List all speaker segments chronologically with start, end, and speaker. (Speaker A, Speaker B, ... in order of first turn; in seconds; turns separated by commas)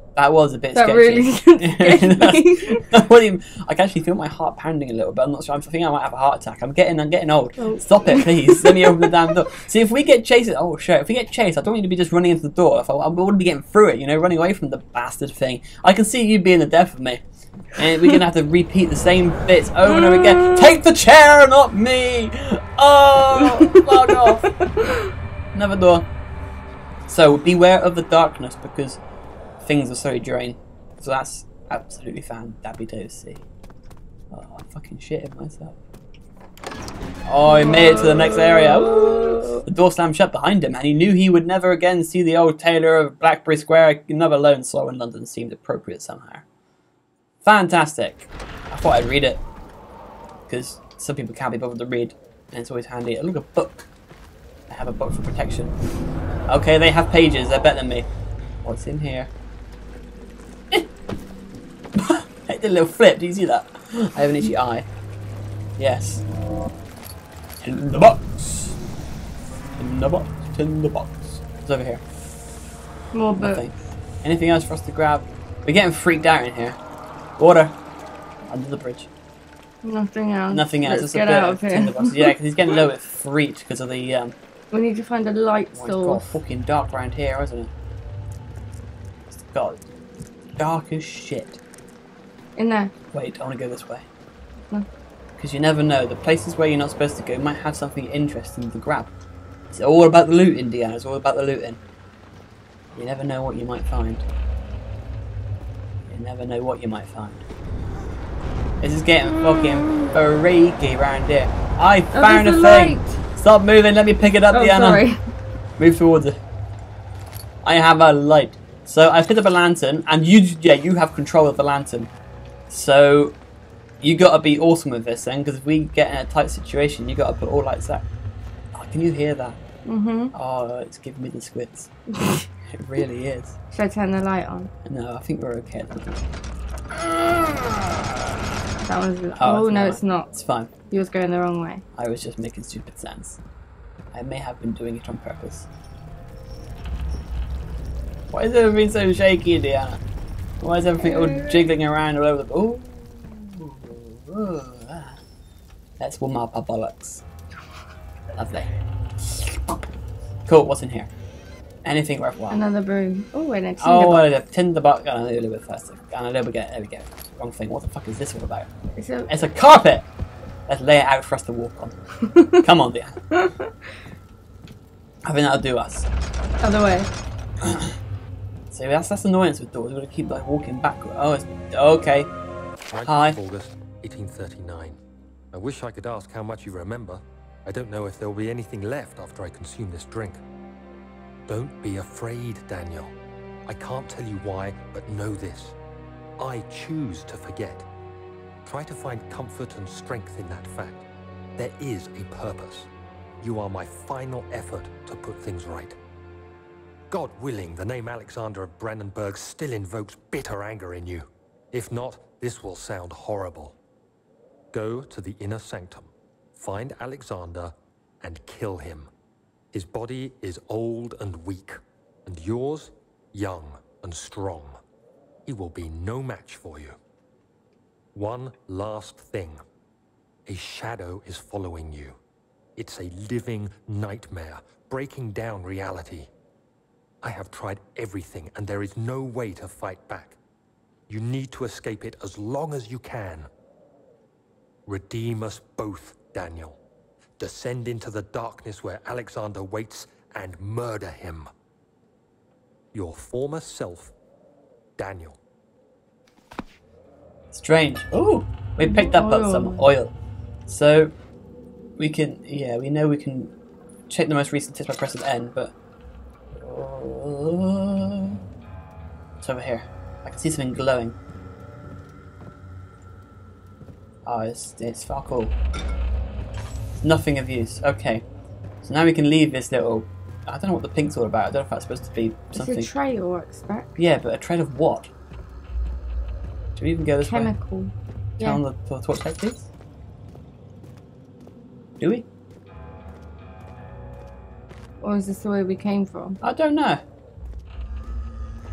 Speaker A: 0.2-17.2, Speaker B: 0.8-2.8, Speaker B: 7.6-9.0, Speaker A: 17.8-24.5, Speaker B: 20.0-20.6, Speaker B: 23.4-25.1, Speaker A: 25.5-26.1, Speaker A: 27.1-29.0, Speaker A: 29.6-33.4, Speaker A: 34.3-35.8, Speaker A: 37.2-46.5, Speaker B: 37.5-39.6, Speaker A: 47.4-49.4, Speaker A: 50.5-53.9, Speaker A: 54.7-55.7, Speaker A: 56.5-58.1, Speaker A: 58.6-59.3, Speaker A: 62.0-64.9, Speaker A: 65.8-66.2, Speaker A: 67.6-68.8, Speaker A: 69.8-72.0, Speaker B: 73.1-73.6, Speaker A: 73.3-76.8, Speaker A: 77.4-77.8, Speaker A: 78.5-79.1, Speaker B: 79.8-82.3, Speaker A: 80.5-84.3, Speaker B: 84.7-86.4, Speaker A: 85.7-87.7, Speaker A: 89.3-89.8, Speaker A: 90.6-91.6, Speaker B: 92.6-92.9, Speaker A: 93.1-94.1, Speaker A: 95.4-99.1, Speaker A: 99.7-101.8, Speaker A: 103.0-104.2, Speaker A: 106.1-107.4, Speaker A: 108.8-115.1, Speaker B: 109.6-110.1, Speaker B: 112.1-113.2, Speaker B: 114.5-115.2, Speaker A: 115.8-116.4, Speaker A: 117.6-122.1, Speaker A: 122.7-123.4, Speaker A: 124.0-128.1, Speaker A: 128.8-129.6, Speaker B: 129.9-130.3, Speaker A: 130.3-133.6, Speaker B: 133.7-134.7, Speaker A: 134.9-136.2, Speaker B: 138.8-141.8, Speaker A: 139.4-140.7, Speaker A: 141.9-143.4, Speaker A: 144.1-145.7, Speaker A: 148.3-150.0, Speaker A: 150.6-155.2, Speaker A: 156.0-157.2, Speaker A: 158.3-158.7, Speaker A: 160.5-161.1, Speaker A: 161.8-162.6, Speaker B: 162.5-164.3, Speaker A: 163.8-168.7, Speaker B: 169.0-169.3, Speaker A: 169.3-170.1, Speaker A: 170.7-171.9, Speaker A: 172.6-173.4, Speaker A: 175.2-176.1, Speaker B: 176.6-177.1, Speaker A: 177.6-177.9, Speaker A: 178.7-182.3, Speaker C: 182.9-185.0, Speaker A: 183.0-183.4, Speaker C: 185.5-190.4, Speaker C: 191.5-193.1, Speaker C: 193.7-195.8, Speaker C: 196.4-197.9, Speaker C: 198.7-201.0, Speaker C: 201.6-202.9, Speaker C: 203.4-206.0, Speaker C: 207.1-213.8, Speaker C: 214.7-219.1, Speaker C: 219.7-224.8, Speaker C: 225.5-227.0, Speaker C: 228.2-229.6, Speaker C: 230.5-232.2, Speaker C: 232.8-236.3, Speaker C: 237.2-240.4, Speaker C: 241.1-243.5, Speaker C: 244.9-246.8, Speaker C: 247.4-251.5, Speaker C: 252.9-254.2, Speaker C: 255.0-255.4, Speaker A: 257.5-260.1, Speaker B: 258.8-259.9, Speaker A: 260.7-261.1, Speaker A: 262.0-263.5, Speaker A: 264.1-265.7, Speaker A: 266.5-268.4, Speaker A: 269.4-271.2, Speaker A: 274.3-275.6, Speaker A: 277.0-278.2, Speaker A: 278.8-282.9, Speaker B: 282.5-284.0, Speaker A: 284.0-285.1, Speaker A: 286.8-287.5, Speaker B: 287.3-288.6, Speaker A: 288.4-289.7, Speaker A: 292.0-292.2, Speaker B: 295.0-296.4, Speaker A: 296.4-297.0